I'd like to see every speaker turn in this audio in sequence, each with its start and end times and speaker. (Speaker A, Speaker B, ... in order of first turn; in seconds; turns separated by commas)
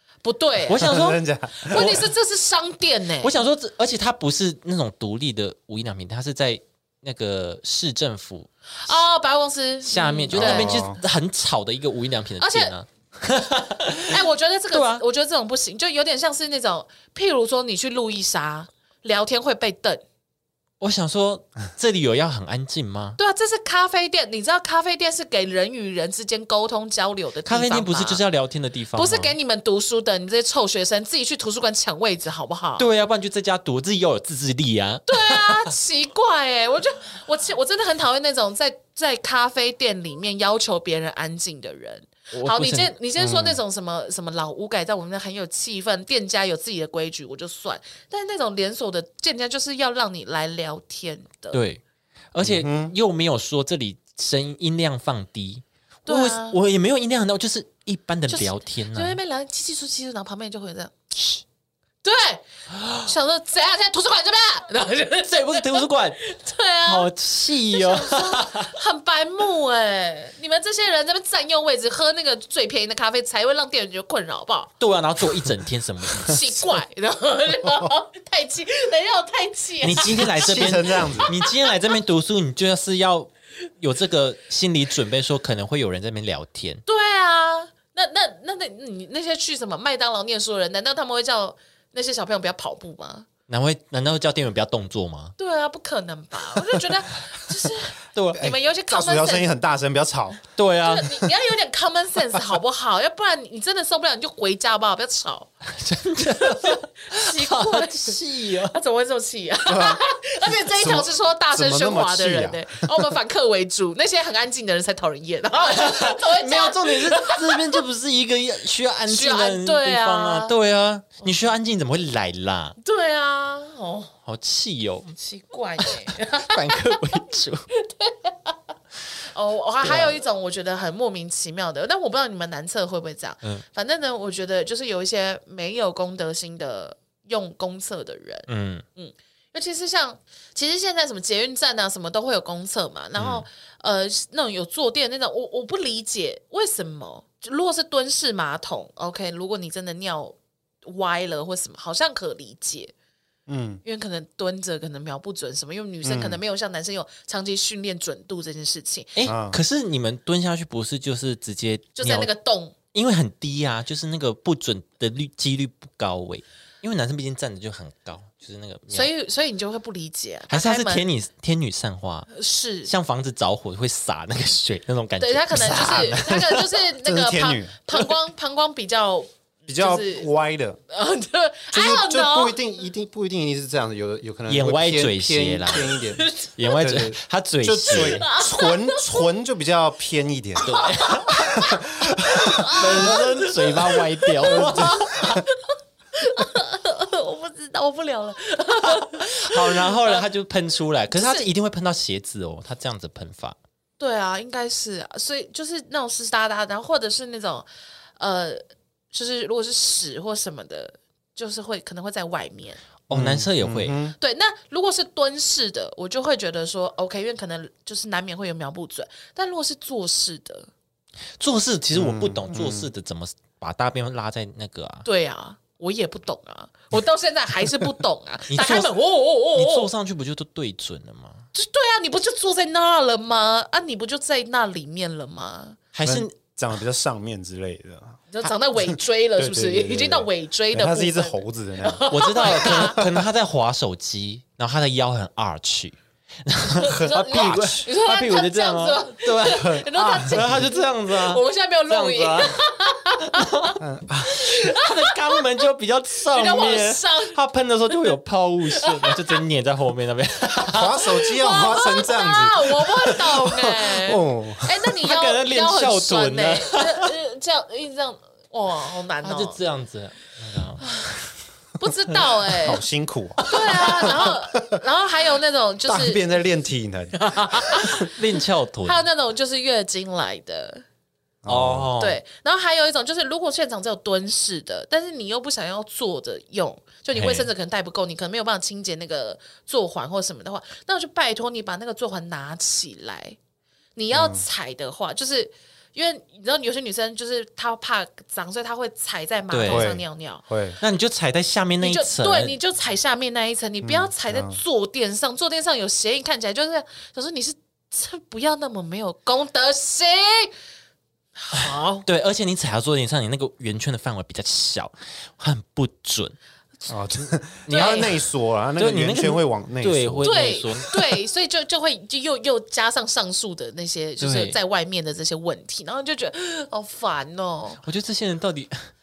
Speaker A: 0.2-1.0, Speaker B: 0.7-2.1, Speaker C: 0.8-1.9, Speaker A: 1.6-3.3, Speaker B: 3.2-8.5, Speaker A: 8.8-10.8, Speaker B: 9.8-15.0, Speaker C: 10.3-11.0, Speaker A: 12.4-12.7, Speaker A: 14.1-20.0, Speaker B: 20.8-23.2, Speaker A: 23.2-28.2, Speaker B: 27.4-29.3, Speaker A: 28.9-32.8, Speaker B: 32.8-35.7, Speaker A: 35.1-51.6, Speaker B: 42.3-42.9, Speaker C: 43.2-43.6, Speaker B: 51.5-51.8, Speaker B: 52.3-59.2, Speaker C: 52.4-52.9, Speaker A: 56.0-56.6, Speaker A: 58.3-61.4, Speaker A: 62.0-67.1, Speaker B: 65.2-66.2, Speaker B: 66.8-68.7, Speaker A: 67.7-74.7, Speaker B: 74.8-76.6, Speaker A: 76.2-81.5, Speaker C: 77.6-77.9, Speaker B: 79.8-86.8, Speaker C: 79.9-81.3, Speaker A: 86.8-93.3, Speaker B: 93.5-95.3, Speaker A: 95.4-99.5, Speaker B: 98.1-98.5, Speaker C: 98.3-100.4, Speaker B: 100.5-101.3, Speaker A: 100.8-105.5, Speaker B: 105.7-108.8, Speaker A: 106.2-117.8, Speaker C: 109.7-110.0, Speaker C: 110.6-112.9, Speaker B: 115.6-122.8, Speaker A: 119.1-120.5, Speaker A: 122.8-124.1, Speaker B: 124.2-125.2, Speaker A: 125.2-127.0, Speaker B: 125.8-127.7, Speaker A: 127.7-128.7, Speaker A: 129.3-152.9, Speaker B: 129.8-130.2, Speaker B: 138.5-138.8, Speaker B: 143.2-143.4, Speaker C: 153.5-153.8, Speaker A: 153.8-159.2, Speaker C: 156.0-156.4, Speaker B: 159.2-162.3, Speaker C: 159.2-159.6, Speaker A: 162.0-162.7, Speaker B: 162.9-169.1, Speaker A: 168.9-171.1, Speaker B: 170.5-172.3, Speaker A: 172.3-172.9, Speaker B: 172.8-176.8, Speaker A: 175.2-180.3, Speaker C: 177.0-177.8, Speaker C: 179.7-180.8, Speaker A: 180.9-182.6, Speaker C: 181.7-190.7, Speaker B: 184.5-186.0, Speaker A: 186.2-186.8, Speaker B: 186.6-188.3, Speaker A: 187.8-189.2, Speaker B: 190.6-191.6, Speaker A: 190.6-195.6, Speaker C: 191.4-193.2, Speaker B: 192.6-195.4, Speaker C: 194.4-195.4, Speaker A: 196.1-200.2, Speaker B: 198.8-203.6, Speaker A: 201.1-201.5, Speaker A: 204.0-207.7, Speaker A: 208.2-212.8, Speaker B: 213.1-213.9, Speaker C: 213.1-214.1, Speaker A: 214.2-220.7, Speaker B: 221.4-225.1, Speaker C: 221.9-222.9, Speaker A: 225.0-229.9, Speaker B: 228.5-228.9, Speaker B: 229.5-231.5, Speaker A: 231.5-235.8, Speaker B: 235.9-236.3, Speaker C: 236.0-243.2, Speaker A: 238.3-243.1, Speaker B: 242.1-252.6, Speaker A: 246.7-255.4, Speaker C: 246.8-247.8, Speaker C: 249.4-250.6, Speaker B: 253.2-253.8, Speaker C: 253.8-254.3, Speaker B: 254.3-261.0, Speaker A: 256.3-257.3, Speaker A: 258.8-259.2, Speaker C: 260.7-264.7, Speaker A: 261.1-269.6, Speaker B: 265.0-267.1, Speaker B: 269.2-270.9, Speaker A: 270.8-271.2, Speaker A: 271.8-272.8, Speaker C: 272.5-274.8, Speaker A: 273.5-276.2, Speaker C: 275.9-277.9, Speaker A: 277.1-278.2, Speaker B: 277.8-279.0, Speaker A: 278.8-280.8, Speaker C: 281.4-281.9, Speaker B: 281.4-282.2, Speaker A: 282.0-293.4, Speaker B: 287.1-287.5, Speaker A: 293.9-300.4, Speaker C: 294.1-294.4, Speaker B: 299.5-299.9, Speaker C: 299.7-300.8, Speaker B: 300.8-302.6, Speaker A: 301.8-310.5, Speaker C: 303.8-304.6, Speaker A: 311.4-312.0, Speaker B: 311.5-316.4, Speaker C: 316.9-320.3, Speaker B: 317.7-321.1, Speaker A: 317.7-318.1, Speaker A: 320.2-327.8, Speaker B: 324.2-324.6, Speaker B: 327.8-328.9